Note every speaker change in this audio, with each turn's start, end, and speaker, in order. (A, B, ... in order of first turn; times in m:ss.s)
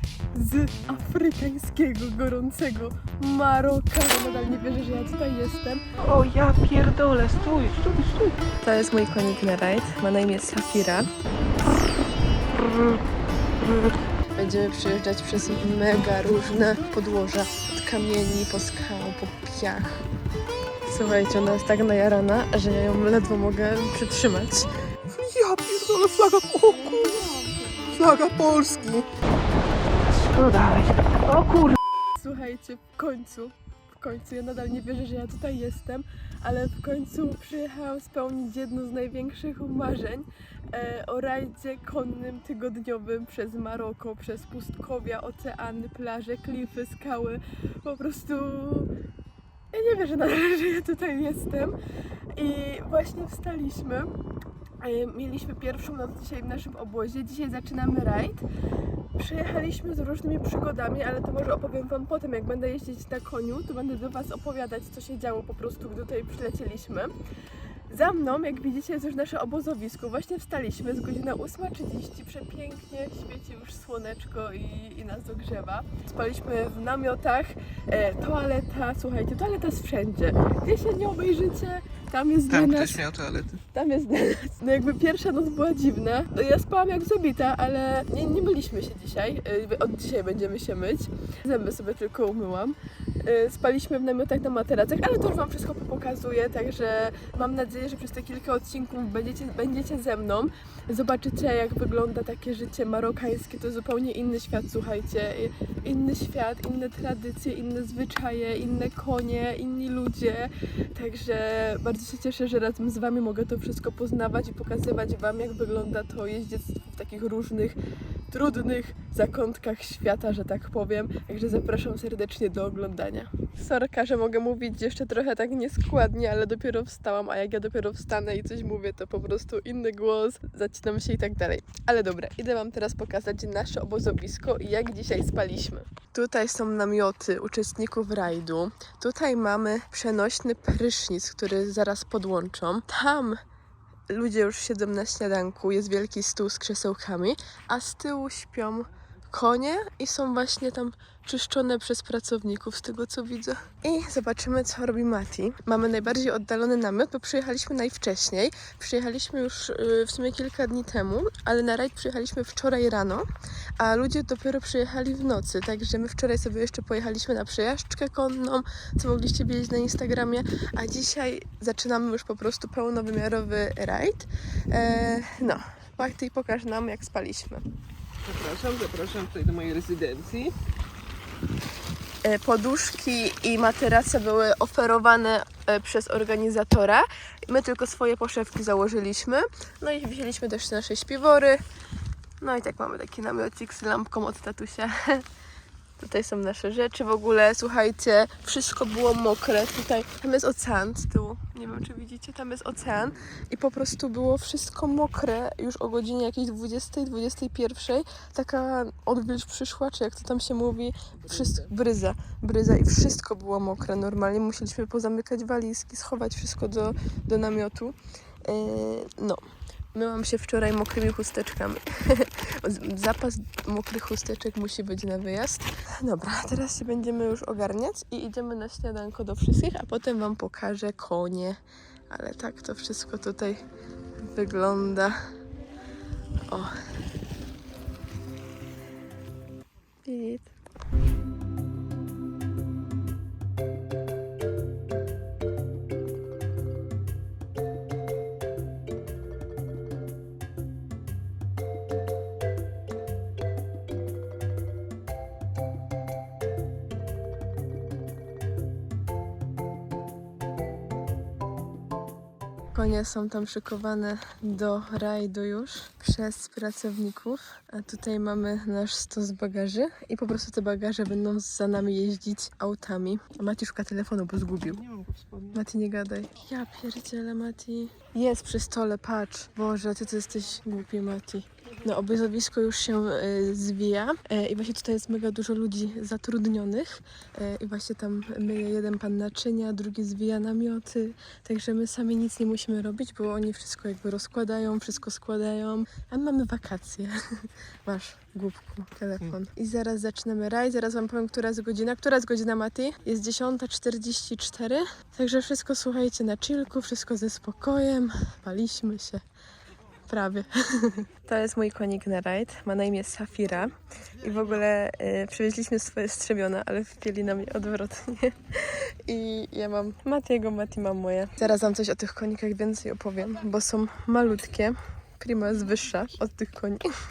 0:00.3-0:05.8 A
0:06.0-0:08.4 B
0:08.6-0:11.1 A
0:12.7-0:13.0 B
0:14.4-0:20.0 A
0:20.9-0:24.7 A
0:25.1-0:27.0 B
0:26.6-0:29.1 A
0:30.1-0:31.8 B
0:32.2-0:48.9 A
0:49.7-0:51.8 A
0:52.3-0:54.1 A
0:54.8-0:58.4 A
0:59.2-1:07.1 A
1:07.9-1:23.0 A
1:22.5-1:23.6 B
1:23.7-1:57.8 A
1:58.3-2:23.4 A
2:24.1-2:43.3 A
2:43.8-2:57.6 A
2:58.2-3:00.5 B
3:02.2-3:11.6 A
3:12.4-3:15.2 A
3:16.0-3:39.4 A
3:39.9-3:51.6 A
3:52.1-3:53.6 A
3:54.3-3:55.2 A
4:00.1-4:00.5 A
4:22.7-4:34.8 A
4:34.8-4:35.6 B
4:35.5-5:09.2 A
5:10.1-5:26.9 A